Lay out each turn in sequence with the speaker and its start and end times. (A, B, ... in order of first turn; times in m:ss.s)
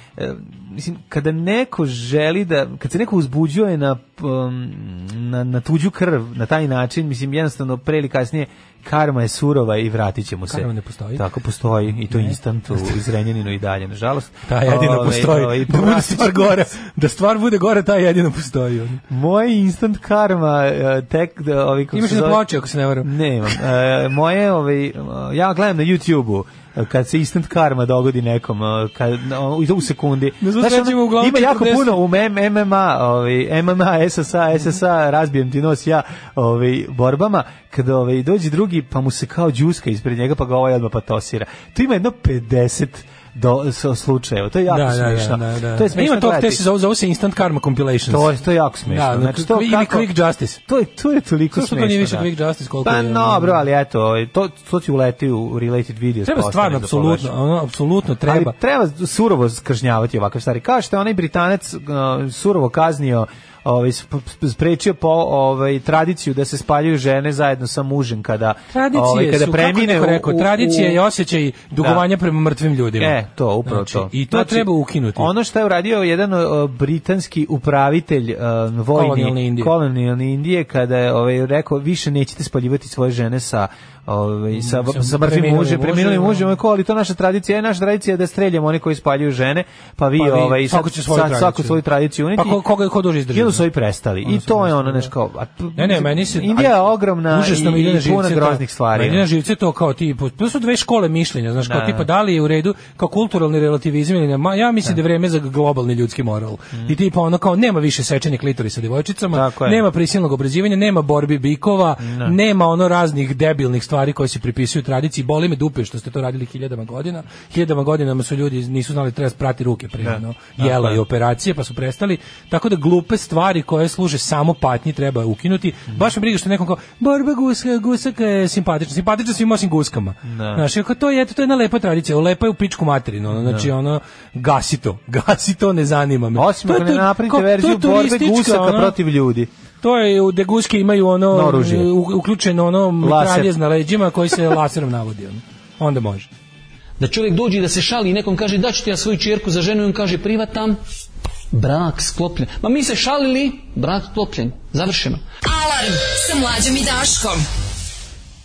0:00.2-0:16.7 A
0:10.5-0:11.2 B
0:12.1-0:13.0 B
0:14.4-0:19.0 B
0:19.1-0:22.5 A
0:21.9-0:23.6 B
0:23.0-0:46.6 A
0:30.4-0:32.0 B
0:44.7-0:48.3 B
0:48.1-0:50.1 A
0:48.9-0:50.6 B
0:50.6-0:52.3 A
0:51.5-0:53.6 B
0:52.8-0:57.3 A
0:56.2-0:58.5 B
0:58.2-1:11.0 A
1:08.7-1:15.3 B
1:11.8-1:12.0 A
1:13.0-1:32.6 A
1:18.9-1:19.7 B
1:24.5-1:26.5 B
1:30.2-1:31.8 B
1:32.3-1:33.6 B
1:33.3-1:39.2 A
1:34.2-1:35.1 B
1:35.8-2:19.0 B
1:41.6-1:42.0 A
1:49.3-1:49.8 A
1:52.0-1:52.4 A
2:00.0-2:01.0 A
2:10.2-2:10.6 A
2:13.3-2:13.7 A
2:16.3-2:19.5 A
2:19.8-2:26.3 B
2:21.3-2:21.9 A
2:23.0-2:23.5 A
2:27.0-2:30.8 C
2:31.5-2:35.2 C
2:35.4-2:37.4 D